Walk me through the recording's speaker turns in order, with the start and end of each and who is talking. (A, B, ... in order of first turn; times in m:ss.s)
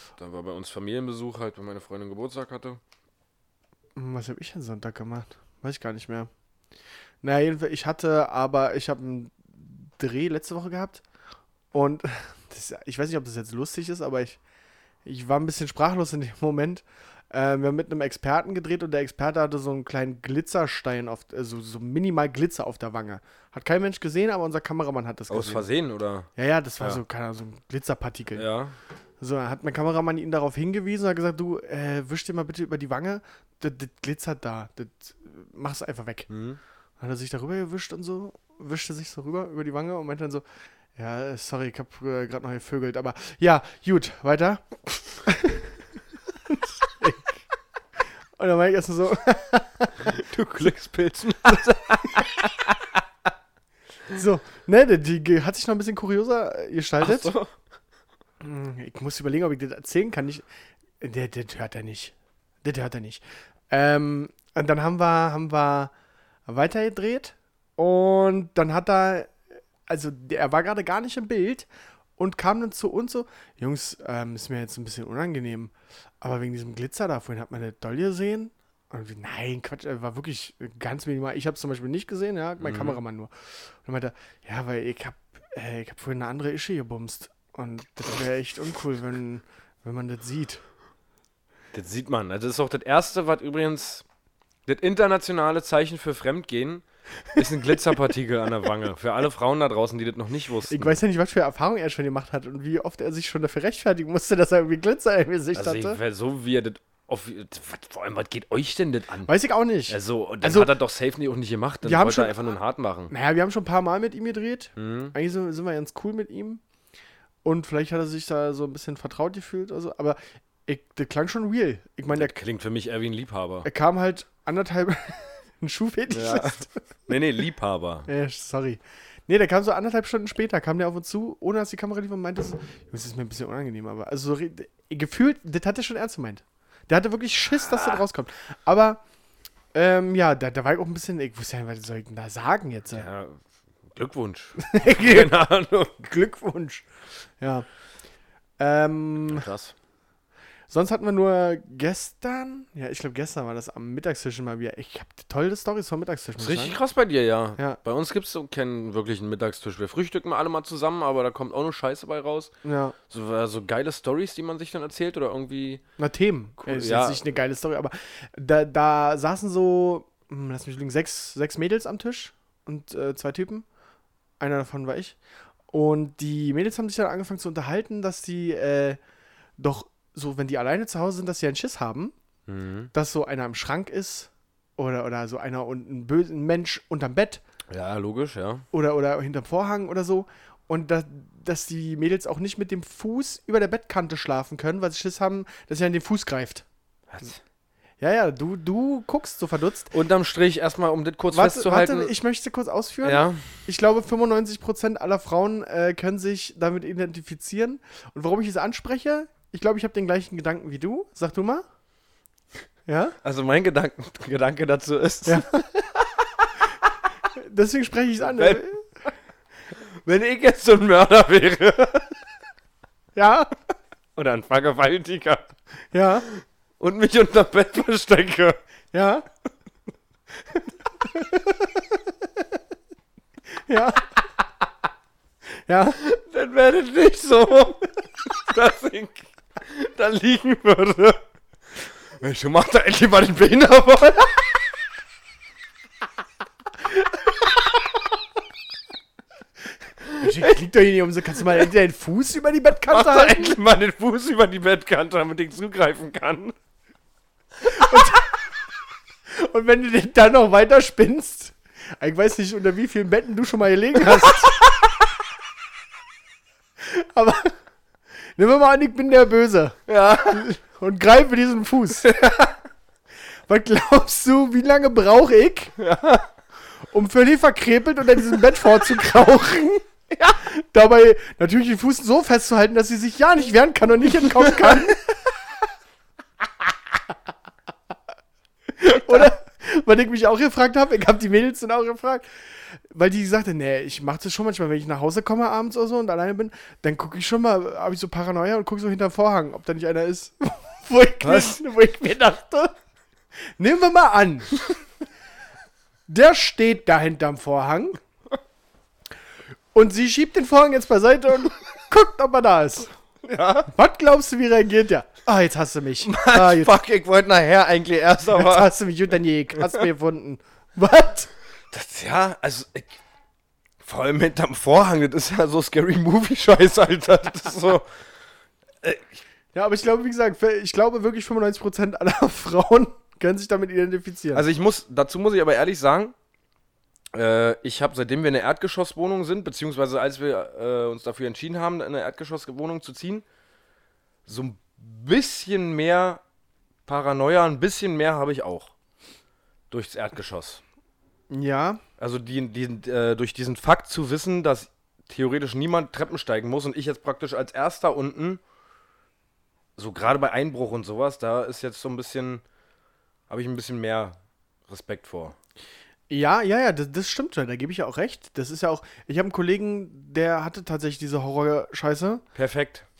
0:00.2-0:02.8 A
0:04.0-0:06.3 B
0:07.2-0:11.0 B
0:11.7-0:14.4 B
0:15.0-0:25.6 B
0:25.3-0:26.3 A
0:26.4-0:28.4 B
0:28.3-0:28.8 A
0:29.2-0:36.3 B
0:36.3-0:36.6 A
0:37.0-0:40.4 B
0:41.0-0:45.8 B
0:46.5-0:47.4 B
0:48.4-0:50.2 B
0:50.0-0:53.0 A
0:54.1-0:57.3 B
0:57.0-0:57.5 A
0:58.4-1:00.4 B
1:01.0-1:05.9 B
1:06.5-1:09.3 B
1:09.9-1:30.6 B
1:22.6-1:23.0 A
1:31.7-1:34.0 A
1:34.6-1:41.0 A
1:40.7-1:46.0 B
1:45.5-1:49.3 A
1:49.2-1:50.7 B
1:49.9-1:53.1 A
1:51.8-1:52.4 B
1:53.1-1:56.6 B
1:54.8-1:55.1 A
1:57.4-2:02.3 B
2:02.1-2:03.7 A
2:03.6-2:06.8 B
2:06.1-2:08.1 A
2:08.1-2:19.0 B
2:17.5-2:18.0 A
2:19.7-2:23.1 B
2:22.9-2:26.0 A
2:24.6-2:25.4 B
2:26.0-2:26.8 B
2:27.4-2:27.6 B
2:28.6-2:29.5 B
2:29.2-2:29.7 A
2:30.7-2:36.8 B
2:36.4-2:42.5 A
2:42.6-2:43.0 B
2:43.1-2:45.8 A
2:46.0-2:53.6 B
2:46.6-2:47.2 A
2:54.4-2:55.2 B
2:55.7-2:59.0 B
2:59.6-3:02.1 B
3:02.5-3:02.9 A
3:02.9-3:07.4 B
3:07.7-3:08.6 A
3:08.7-3:16.6 B
3:17.1-3:17.4 A
3:18.0-3:19.9 B
3:19.9-3:22.1 A
3:21.3-3:31.6 B
3:23.0-3:23.4 A
3:32.9-3:33.2 B
3:33.2-3:36.3 A
3:35.2-3:35.6 B
3:37.3-3:38.8 B
3:38.2-3:38.6 A
3:40.0-3:42.2 A
3:43.1-3:43.5 B
3:44.2-3:45.5 A
3:45.9-3:46.3 B
3:46.3-3:48.6 A
3:48.9-3:49.2 B
3:51.1-3:51.7 B
3:53.7-3:54.1 B
3:55.7-3:56.0 B
3:56.0-4:01.2 A
4:02.1-4:04.6 A
4:10.1-4:10.5 A
4:10.2-4:13.6 B
4:11.4-4:11.7 A
4:12.9-4:16.5 A
4:17.6-4:18.3 B
4:17.7-4:18.1 A
4:19.3-4:24.7 B
4:26.8-4:27.5 B
4:28.4-4:32.1 B
4:29.9-4:30.4 A
4:32.0-4:32.5 A
4:33.5-4:35.8 B
4:35.8-4:36.3 A
4:36.9-4:45.0 B
4:44.2-4:44.9 A
4:48.8-5:02.7 B
5:01.2-5:01.6 A
5:03.6-5:04.6 B
5:06.1-5:08.0 B
5:09.7-5:12.9 B
5:13.2-5:13.7 A
5:13.7-5:16.7 B
5:16.0-5:18.7 A
5:18.3-5:21.3 B
5:21.7-5:23.0 A
5:23.8-5:27.9 A
5:28.8-5:29.2 A
5:29.5-5:34.4 B
5:34.3-5:36.1 A
5:37.1-5:43.2 A
5:44.2-5:46.2 A
5:46.8-5:48.7 A
5:49.7-5:50.6 A
5:51.3-5:51.8 B
5:52.0-5:58.4 A
5:59.8-6:02.4 A
6:03.3-6:05.4 A
6:06.1-6:12.2 B
6:12.3-6:12.8 A